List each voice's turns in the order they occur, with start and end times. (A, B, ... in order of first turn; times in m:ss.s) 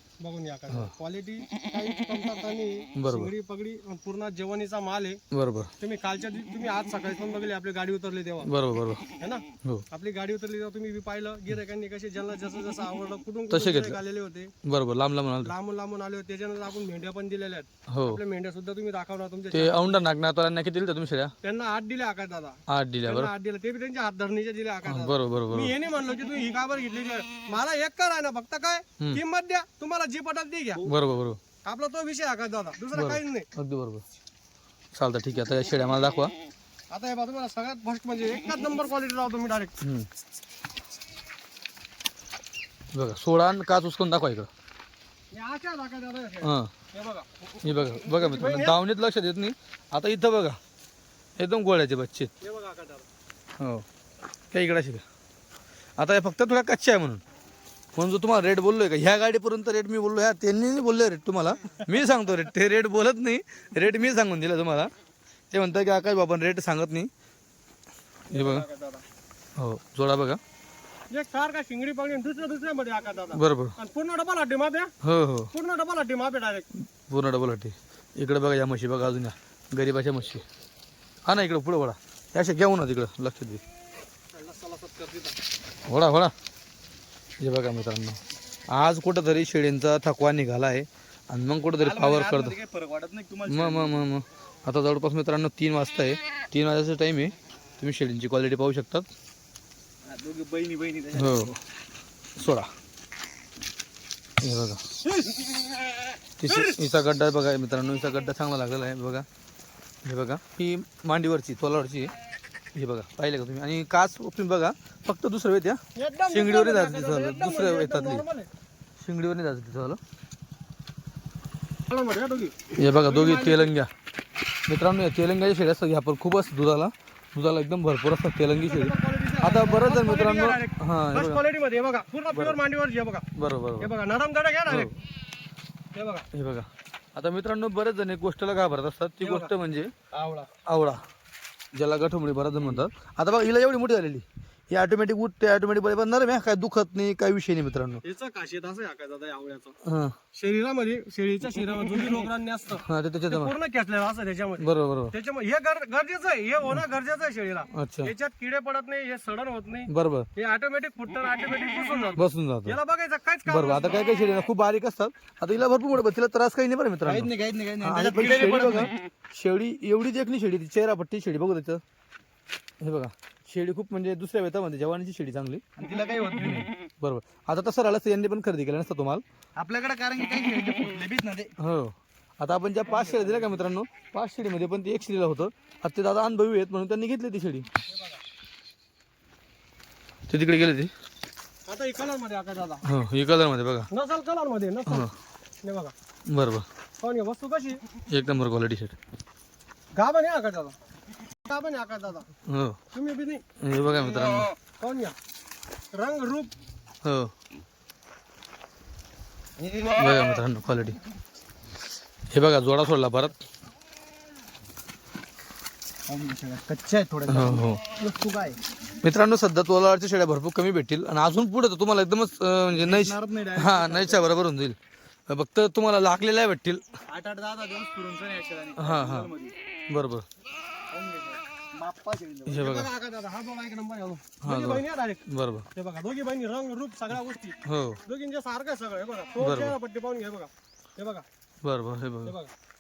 0:00.2-0:05.2 A
0:03.0-0:03.3 B
0:05.3-0:05.7 B
0:05.8-0:08.5 A
0:08.4-0:09.0 B
0:09.2-0:14.5 A
0:13.5-0:14.0 B
0:14.6-0:15.5 B
0:15.4-0:20.0 A
0:17.9-0:18.2 B
0:19.5-0:21.3 B
0:21.4-0:30.9 A
0:22.7-0:23.3 B
0:24.9-0:25.7 B
0:30.8-0:31.4 B
0:31.6-0:33.5 A
0:32.9-0:34.0 B
0:35.0-0:36.3 B
0:36.9-0:39.8 A
0:39.8-0:40.1 B
0:42.9-0:44.5 B
0:45.3-0:48.8 A
0:46.4-0:46.7 B
0:47.6-0:50.6 B
0:51.4-0:52.3 B
0:52.4-0:53.1 A
0:54.5-0:55.0 B
0:56.0-0:57.2 B
0:58.0-1:04.9 B
1:05.5-1:07.1 B
1:08.3-1:09.0 A
1:08.3-1:08.6 B
1:09.6-1:10.4 B
1:11.1-1:14.9 A
1:13.3-1:13.8 B
1:15.0-1:15.5 B
1:15.5-1:16.7 A
1:17.1-1:20.4 B
1:21.3-1:23.6 B
1:24.3-1:25.4 A
1:25.9-1:26.3 B
1:27.4-1:28.2 B
1:28.7-1:32.6 B
1:31.8-1:34.0 C
1:33.5-1:39.1 B
1:40.1-1:41.5 C
1:41.2-1:41.6 B
1:42.4-1:42.7 B
1:44.4-1:44.8 B
1:46.4-1:49.3 B
1:50.0-1:52.1 B
1:52.8-1:58.2 B
1:56.0-1:58.5 A
1:59.0-2:00.0 B
2:01.9-2:03.7 A
2:02.8-2:03.9 B
2:04.7-2:11.4 B
2:08.6-2:13.2 A
2:12.3-2:12.6 B
2:13.4-2:13.9 B
2:13.8-2:14.9 A
2:16.0-2:16.3 A
2:16.3-2:19.9 B
2:19.2-2:19.5 A
2:20.2-2:20.4 C
2:20.7-2:21.0 B
2:21.7-2:28.0 B
2:28.0-2:29.8 A
2:29.8-2:30.2 B
2:30.4-2:44.0 A
2:32.9-2:33.5 B
2:34.6-2:35.1 B
2:37.7-2:38.1 B
2:39.9-2:40.3 B
2:42.2-2:42.8 B
2:43.5-2:51.8 B
2:47.0-2:48.9 C
2:52.8-2:55.6 B
2:55.8-2:56.7 C
2:56.4-2:59.2 B
2:59.6-3:01.5 C
3:01.6-3:07.7 B
3:02.9-3:03.4 C
3:10.3-3:10.9 B
3:11.7-3:12.8 A
3:12.9-3:13.9 B
3:13.9-3:15.1 A
3:15.6-3:15.9 A
3:16.3-3:16.6 B
3:17.0-3:17.8 A
3:18.1-3:19.0 B
3:20.0-3:20.8 A
3:21.5-3:22.3 A
3:22.5-3:22.8 B
3:22.9-3:23.4 A
3:23.6-3:24.5 B
3:24.8-3:25.2 A
3:25.9-3:26.5 A
3:27.0-3:27.3 B
3:30.0-3:31.0 B
3:32.3-3:33.4 B
3:36.1-3:38.6 C
3:37.3-3:37.8 B
3:39.0-3:44.8 B
3:42.7-3:44.3 C
3:45.3-3:46.8 B
3:47.1-3:49.6 C
3:48.8-3:49.3 B
3:49.9-3:50.3 B
3:50.9-3:52.7 C
3:52.5-3:52.9 B
3:52.6-3:55.2 A
3:54.4-3:55.7 B
3:55.8-4:01.2 A
3:57.6-3:58.0 B
3:59.4-3:59.8 B
4:01.6-4:02.4 B
4:02.2-4:02.5 A